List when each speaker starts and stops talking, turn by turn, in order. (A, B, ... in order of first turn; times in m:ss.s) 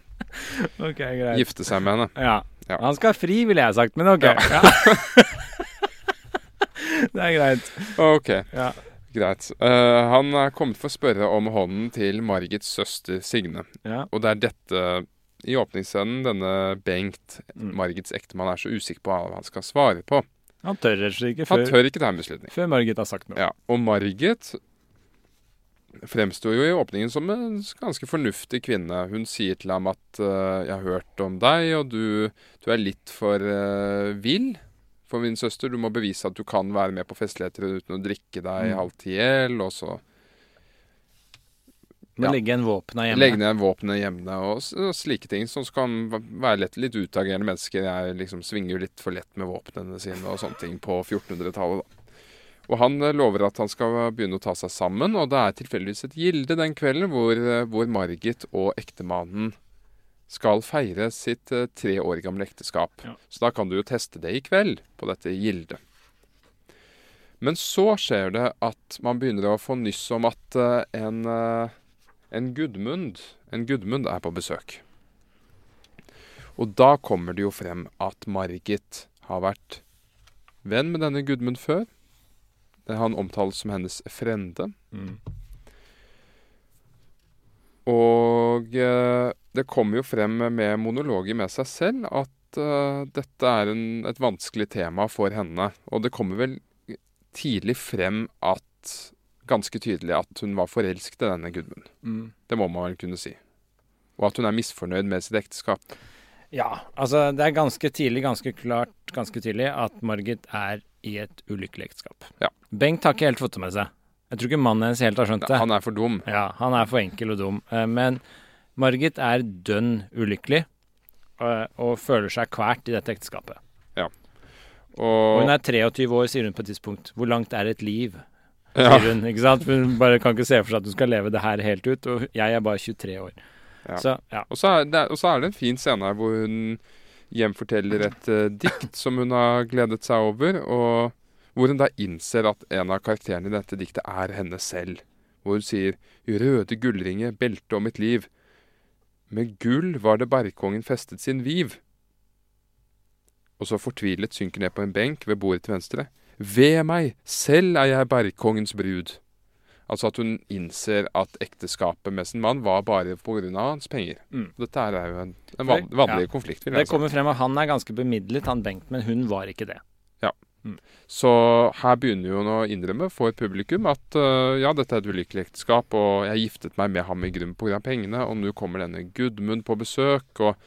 0:00.4-0:01.6 A
0:01.3-0:02.8 B
0:02.2-0:05.6 A
0:04.2-0:05.0 B
0:06.8-0:08.0 A
0:08.0-0:20.3 B
0:08.5-0:08.8 A
0:20.6-0:21.8 A
0:21.5-0:22.5 B
0:22.5-0:23.4 A
0:23.4-0:24.6 B
0:26.0-0:40.0 B
0:42.2-0:43.4 A
0:43.1-0:51.9 B
0:52.7-0:59.6 B
1:00.3-1:05.8 B
1:07.4-1:11.7 B
1:12.3-1:14.8 B
1:16.6-1:19.8 B
1:20.6-1:21.9 B
1:22.9-1:24.7 B
1:27.8-1:41.9 B
1:42.0-1:42.3 A
1:42.5-1:43.4 B
1:44.2-1:46.0 B
1:46.5-1:55.6 A
1:55.4-1:56.2 B
1:56.2-1:58.2 A
1:58.8-2:00.7 A
2:01.4-2:03.6 A
2:04.9-2:05.6 B
2:05.3-2:08.2 A
2:08.8-2:09.1 B
2:08.8-2:13.4 A
2:13.9-2:28.3 B
2:14.0-2:14.5 A
2:29.3-2:31.8 B
2:33.6-2:39.2 B
2:39.9-2:47.0 B
2:45.7-2:49.8 A
2:51.1-3:00.6 B